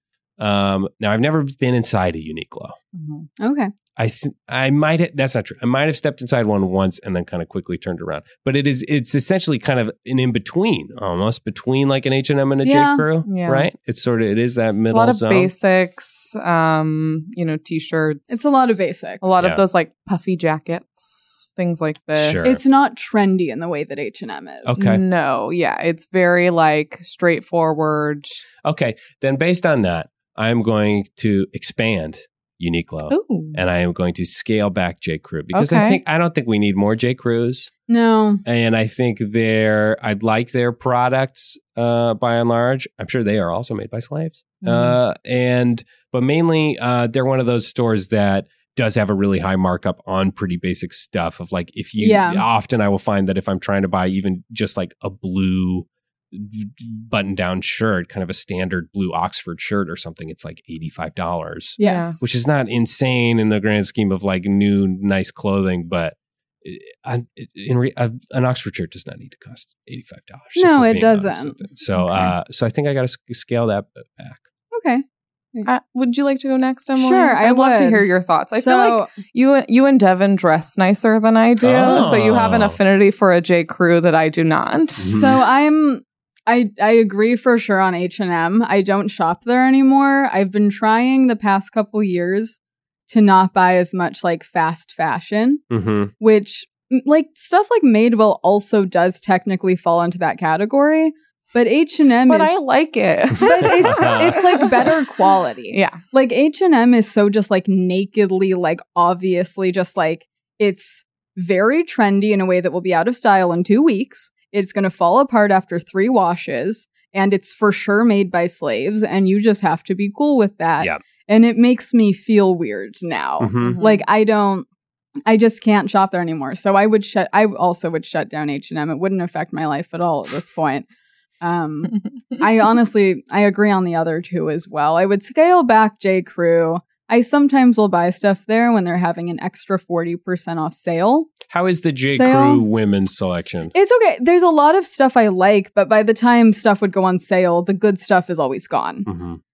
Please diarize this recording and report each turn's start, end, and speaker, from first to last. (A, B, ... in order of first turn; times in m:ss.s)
0:00.4-0:02.8 A
0:02.9-0:03.3 B
0:03.4-0:03.7 C
0:04.0-0:15.5 A
0:12.6-0:13.0 C
0:13.2-0:13.7 B
0:14.9-0:22.5 B
0:18.3-0:19.4 C
0:22.2-0:22.6 A
0:22.4-0:24.8 C
0:24.6-0:25.0 A
0:24.8-0:28.4 B
0:28.6-0:37.7 A
0:33.1-0:33.6 B
0:35.5-0:36.0 B
0:37.9-0:38.4 C
0:38.4-1:14.4 A
0:44.6-0:45.0 B
0:52.0-0:52.4 C
1:01.8-1:02.2 C
1:01.8-1:02.2 B
1:10.6-1:11.6 C
1:12.0-1:12.3 B
1:14.7-1:15.7 C
1:15.6-1:25.1 B
1:16.9-1:19.1 C
1:21.6-1:22.8 A
1:25.0-1:25.4 A
1:25.1-1:35.6 C
1:35.7-1:36.1 A
1:36.2-1:42.6 C
1:42.3-1:44.9 B
1:43.4-2:04.7 C
1:43.7-1:44.9 A
1:45.7-1:46.0 B
2:03.4-2:03.8 A
2:03.6-2:04.0 B
2:05.2-2:10.9 C
2:11.4-2:21.3 C
2:21.5-2:23.7 A
2:22.1-2:22.6 C
2:23.7-2:29.1 C
2:29.0-2:29.4 A